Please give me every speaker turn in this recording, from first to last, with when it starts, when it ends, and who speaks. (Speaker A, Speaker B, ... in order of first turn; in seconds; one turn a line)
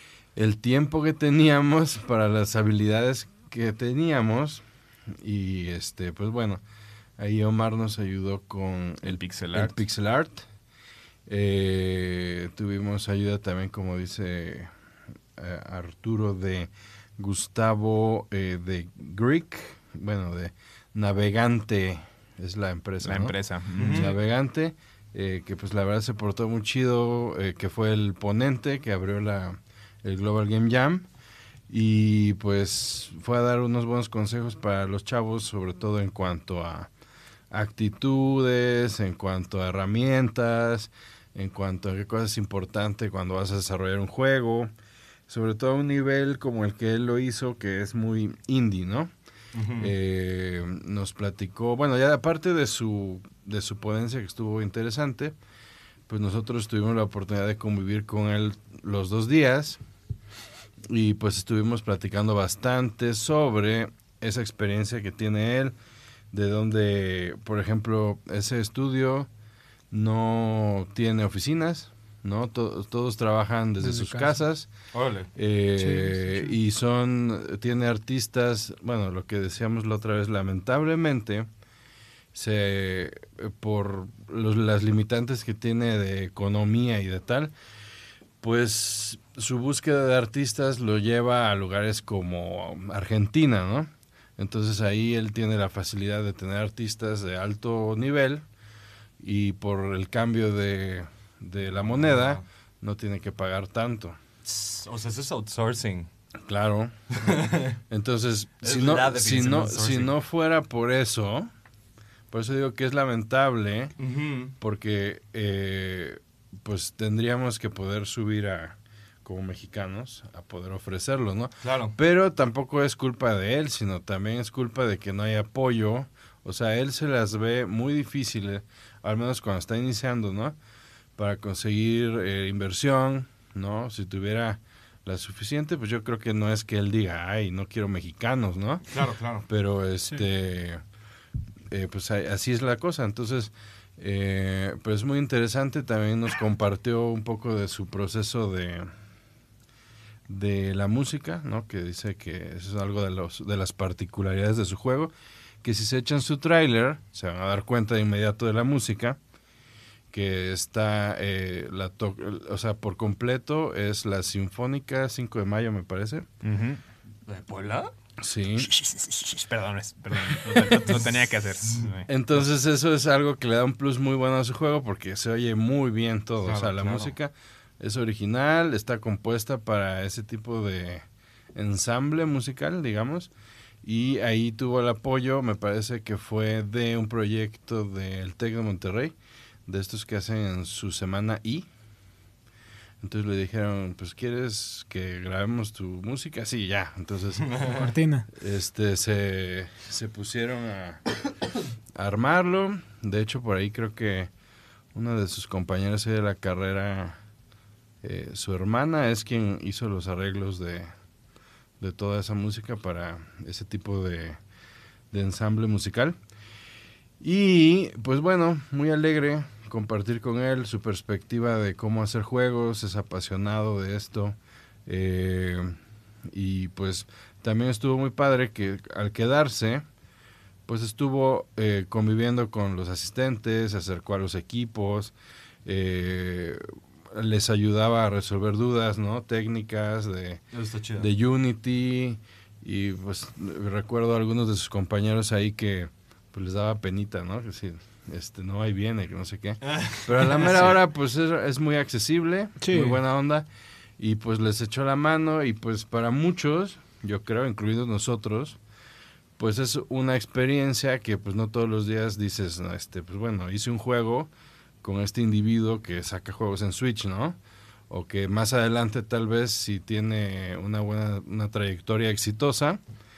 Speaker A: 0.3-6.6
Speaker A: 7.2-10.4
Speaker B: 9.0-9.8
Speaker A: 11.3-14.7
Speaker A: 15.4-31.1
Speaker B: 23.0-24.1
Speaker C: 23.8-24.1
Speaker A: 31.7-36.9
Speaker A: 37.5-44.7
Speaker A: 45.3-49.1
Speaker C: 49.5-49.9
Speaker A: 49.8-55.4
Speaker A: 56.1-59.8
Speaker A: 60.9-65.8
Speaker A: 66.3-69.3
Speaker A: 69.9-74.7
Speaker D: 73.8-74.4
Speaker C: 74.9-75.3
Speaker A: 75.3-81.5
Speaker D: 75.8-76.6
Speaker A: 82.3-87.5
Speaker A: 88.4-98.5
Speaker A: 99.2-104.2
Speaker C: 101.8-102.4
Speaker C: 104.5-106.1
Speaker A: 106.4-111.5
Speaker C: 107.2-107.8
Speaker C: 108.6-110.1
Speaker A: 112.3-113.9
Speaker C: 114.0-114.5
Speaker A: 114.6-130.6
Speaker C: 121.6-122.0
Speaker A: 131.2-138.9
Speaker C: 138.9-139.4
Speaker A: 139.5-140.8
Speaker A: 141.7-148.9
Speaker A: 150.3-155.1
Speaker A: 155.6-159.2
Speaker A: 160.1-166.3
Speaker B: 166.4-166.8
Speaker C: 167.3-167.9
Speaker A: 168.2-168.7
Speaker B: 168.6-172.1
Speaker A: 172.1-183.3
Speaker C: 176.4-177.1
Speaker A: 183.8-189.2
Speaker A: 189.7-191.7
Speaker A: 193.0-197.6
Speaker C: 197.4-197.9
Speaker D: 197.7-198.3
Speaker A: 198.3-201.0
Speaker A: 201.9-204.3
Speaker A: 204.9-207.2
Speaker A: 208.0-210.9
Speaker A: 211.8-214.4
Speaker A: 215.1-216.2
Speaker A: 217.2-225.7
Speaker A: 226.3-229.8
Speaker A: 230.7-240.4
Speaker C: 240.5-241.1
Speaker A: 241.0-253.5
Speaker C: 249.7-250.7
Speaker D: 252.6-253.0
Speaker A: 254.0-258.6
Speaker A: 259.4-264.3
Speaker A: 264.8-267.4
Speaker A: 267.9-272.8